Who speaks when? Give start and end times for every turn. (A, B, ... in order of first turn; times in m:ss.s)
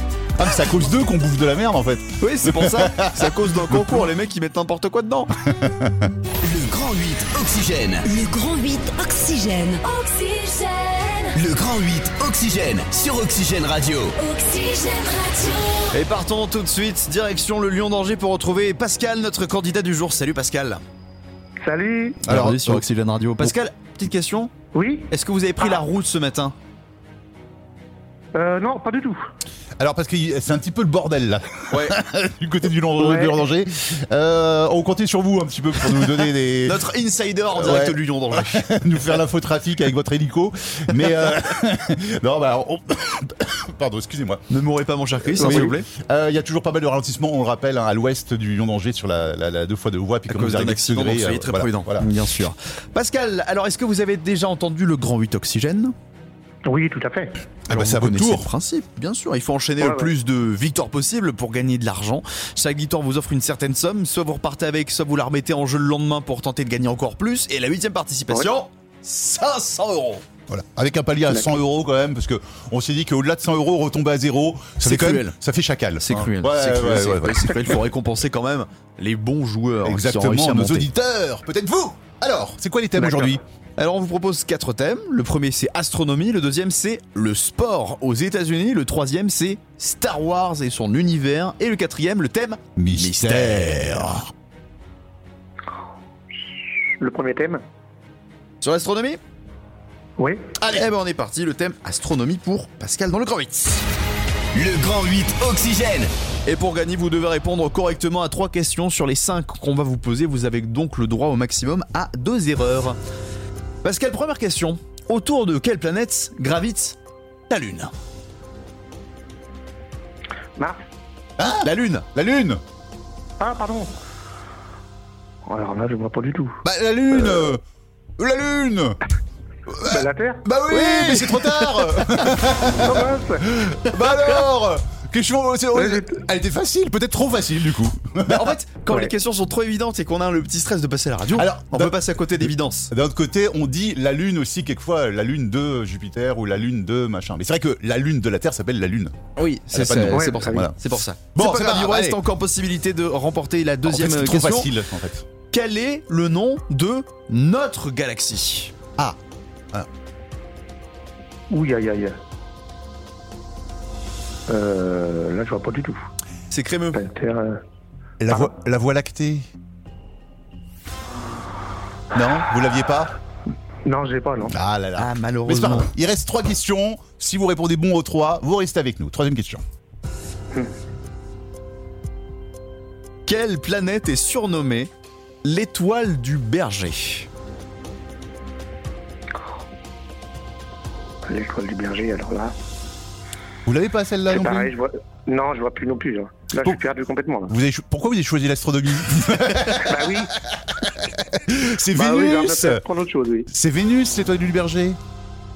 0:00.4-0:04.1 A
0:02.2-0:05.3 B
0:05.5-0:06.1 A
0:06.4-0:08.1 C
0:08.1-0:11.4 D
0:11.4-0:14.1 C
0:14.2-0:15.9 D
0:15.9-0:20.8 B
0:21.6-0:22.2 E
0:22.3-0:22.8 A
0:22.3-0:24.5 B
0:24.7-0:25.1 E
0:25.1-0:26.5 B
0:28.3-0:29.3 E
0:29.8-0:36.8 A
0:31.7-0:32.0 B
0:33.0-0:33.4 E
0:36.6-0:38.7 B
0:37.6-0:44.4 A
0:44.5-0:45.9 B
0:45.2-0:52.1 A
0:50.3-0:55.9 B
0:56.7-0:57.3 E
0:57.7-0:58.5 A
0:57.7-1:10.2 B
0:59.8-1:00.1 E
1:10.5-1:17.8 A
1:14.8-1:15.4 B
1:16.0-1:20.9 B
1:19.8-1:23.4 A
1:23.0-1:34.2 B
1:32.8-1:34.2 A
1:37.0-1:37.6 E
1:38.6-1:39.2 B
1:40.2-1:40.4 E
1:40.6-1:40.8 A
1:40.7-1:43.8 B
1:44.5-1:46.1 C
1:46.5-1:53.0 B
1:53.8-1:57.0 B
1:57.5-1:57.9 B
2:00.6-2:00.8 E
2:01.4-2:02.6 A
2:01.6-2:02.0 B
2:03.4-2:03.9 E
2:05.5-2:06.6 E
2:06.6-2:07.6 A
2:08.2-2:09.0 A
2:09.7-2:18.5 A
2:09.8-2:10.5 E
2:10.7-2:11.7 B
2:12.8-2:13.5 E
2:15.8-2:16.1 E
2:18.2-2:22.9 B
2:21.3-2:29.2 A
2:29.4-2:34.7 B
2:29.7-2:30.8 A
2:30.1-2:30.7 E
2:31.3-2:32.2 A
2:33.9-2:35.2 A
2:35.5-2:38.7 B
2:41.5-2:42.2 E
2:44.5-2:46.0 E
2:46.5-2:47.0 B
2:46.9-2:47.6 E
2:48.2-2:49.5 A
2:52.1-2:53.1 A
2:53.8-2:54.6 E
2:54.5-2:59.6 A
2:55.0-2:55.9 B
3:03.3-3:04.9 B
3:05.4-3:07.3 B
3:11.3-3:12.5 E
3:13.7-3:14.7 A
3:14.3-3:17.5 E
3:17.5-3:20.1 A
3:19.7-3:20.4 E
3:21.2-3:22.8 A
3:21.9-3:23.5 E
3:23.5-3:25.0 A